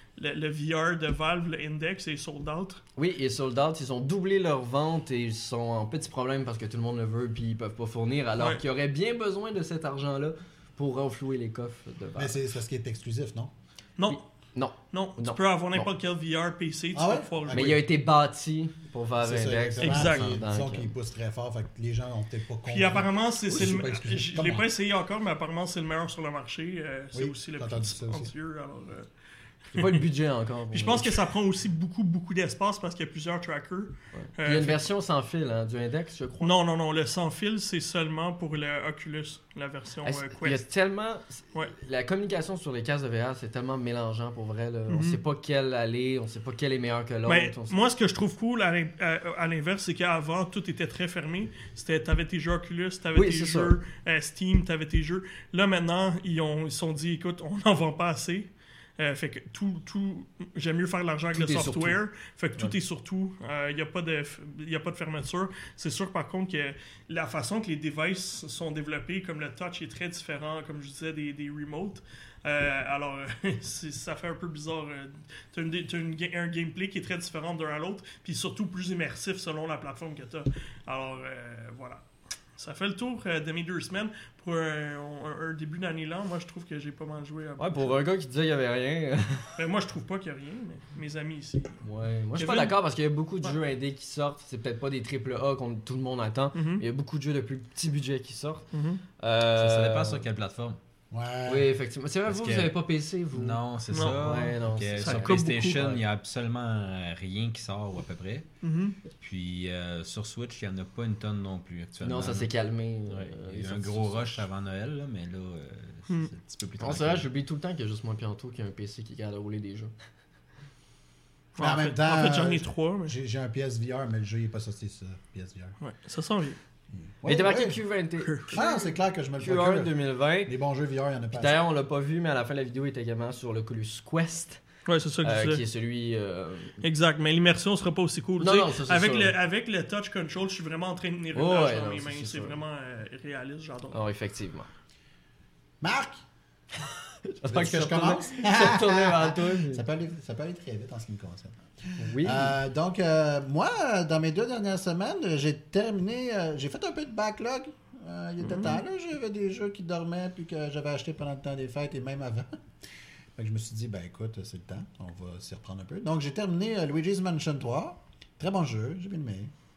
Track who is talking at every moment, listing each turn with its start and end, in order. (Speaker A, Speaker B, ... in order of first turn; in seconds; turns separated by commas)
Speaker A: 0.2-2.8, Speaker B: 3.0-12.3, Speaker C: 12.2-13.5, Speaker B: 14.1-15.9, Speaker A: 14.9-17.8, Speaker C: 16.9-17.9, Speaker B: 17.5-20.9, Speaker C: 19.2-24.7, Speaker A: 19.8-20.3, Speaker A: 22.7-29.1, Speaker C: 27.1-28.3, Speaker A: 29.7-30.1, Speaker B: 29.7-31.3, Speaker A: 30.7-34.9, Speaker B: 34.1-36.5, Speaker A: 36.4-40.6, Speaker B: 40.0-47.8, Speaker A: 44.9-45.2, Speaker A: 47.3-58.5, Speaker B: 53.1-53.8, Speaker A: 59.0-82.0, Speaker B: 61.3-62.0, Speaker A: 82.6-88.0, Speaker B: 87.6-89.6, Speaker A: 89.6-91.7, Speaker B: 91.8-98.7, Speaker A: 92.3-92.8, Speaker A: 96.5-96.8, Speaker A: 98.7-99.0, Speaker B: 99.2-100.2, Speaker D: 99.6-100.8, Speaker C: 101.1-101.7, Speaker B: 101.5-103.6, Speaker D: 102.3-102.8, Speaker D: 103.3-108.5, Speaker A: 103.9-105.8, Speaker B: 104.2-106.0, Speaker A: 108.6-109.0, Speaker D: 109.2-112.5, Speaker B: 112.0-114.4, Speaker D: 113.1-117.3, Speaker B: 116.8-119.9, Speaker A: 121.6-123.2, Speaker C: 121.6-125.8, Speaker A: 125.8-126.6, Speaker C: 127.0-127.8, Speaker B: 127.3-128.6, Speaker A: 128.2-128.9, Speaker C: 128.5-129.9, Speaker B: 129.4-130.5, Speaker C: 130.4-131.6, Speaker B: 131.3-134.6, Speaker A: 134.9-135.6, Speaker B: 135.2-136.8, Speaker A: 136.8-144.0, Speaker B: 138.4-139.3, Speaker B: 141.3-142.6, Speaker B: 143.9-144.7, Speaker C: 145.8-146.2, Speaker B: 147.2-149.9, Speaker C: 147.5-162.5, Speaker B: 152.0-152.6, Speaker A: 158.4-158.8, Speaker C: 163.4-169.5